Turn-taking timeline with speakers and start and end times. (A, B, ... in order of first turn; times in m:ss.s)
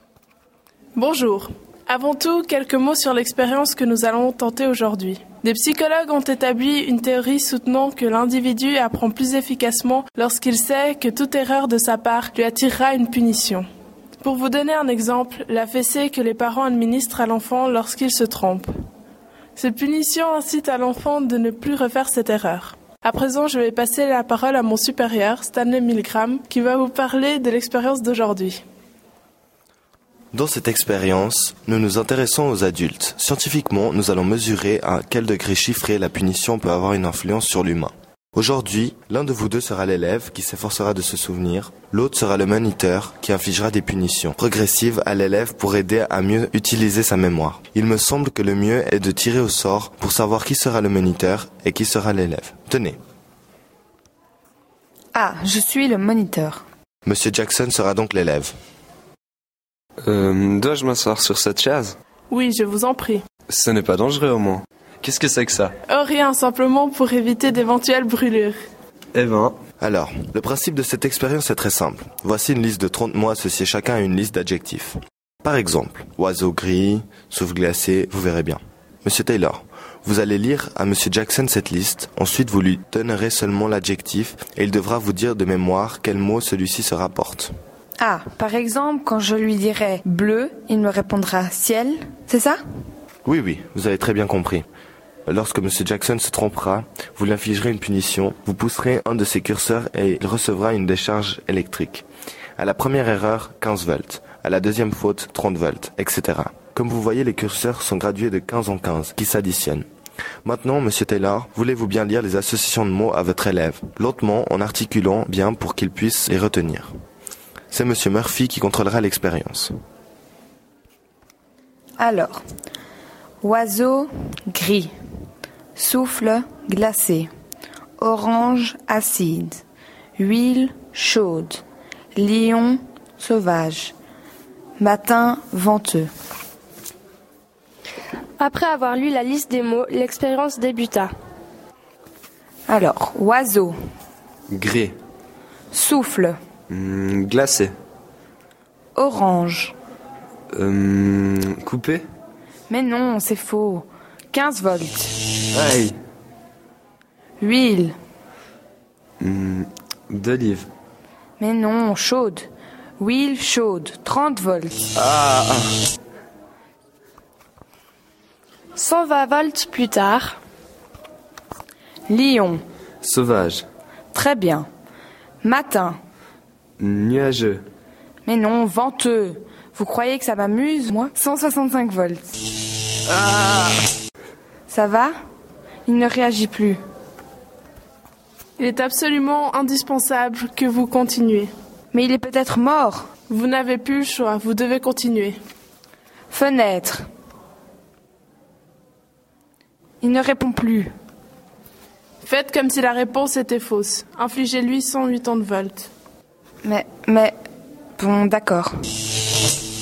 0:01.0-0:13.6 A
0:14.2-0:18.7 A
0:19.6-0:28.6 A
0:30.3-0:53.0 B
0:55.2-0:56.6 C
0:57.1-0:58.5 B
1:00.0-1:02.0 D
1:02.3-1:03.2 A
1:03.5-1:05.7 D
1:05.9-1:08.6 A
1:09.1-1:09.6 D
1:09.8-1:27.5 B
1:28.0-1:32.6 C
1:33.2-1:34.6 B
1:35.3-1:42.1 B
1:42.6-1:49.9 B
1:50.4-1:56.9 B
1:57.7-1:59.7 B
2:02.0-2:02.4 C
2:03.4-2:04.9 C
2:05.8-2:07.3 C
2:08.0-2:09.6 C
2:10.2-2:11.6 C
2:12.2-2:13.9 C
2:14.8-2:16.1 C
2:18.4-2:21.1 E
2:22.7-2:23.8 C
2:24.5-2:25.0 D
2:25.7-2:26.4 C
2:26.7-2:27.7 D
2:29.0-2:29.8 C
2:30.5-2:32.0 D
2:32.7-2:35.1 C
2:35.5-2:36.0 D
2:37.4-2:38.0 C
2:39.2-2:40.7 D
2:41.4-2:42.5 C
2:43.0-2:44.8 C
2:45.0-2:45.7 D
2:48.8-2:50.4 E
2:52.1-2:52.6 C
2:53.0-2:53.7 D
2:54.1-2:54.7 C
2:55.4-2:56.0 C
2:56.8-2:57.6 D
2:58.2-3:02.3 C
3:03.1-3:03.8 D
3:04.7-3:05.1 C
3:05.9-3:06.8 C
3:08.6-3:11.5 A
3:11.9-3:13.1 C
3:13.3-3:15.4 A
3:16.3-3:17.0 C
3:20.0-3:20.9 C
3:22.2-3:25.9 A
3:26.6-3:27.4 C
3:28.0-3:28.7 C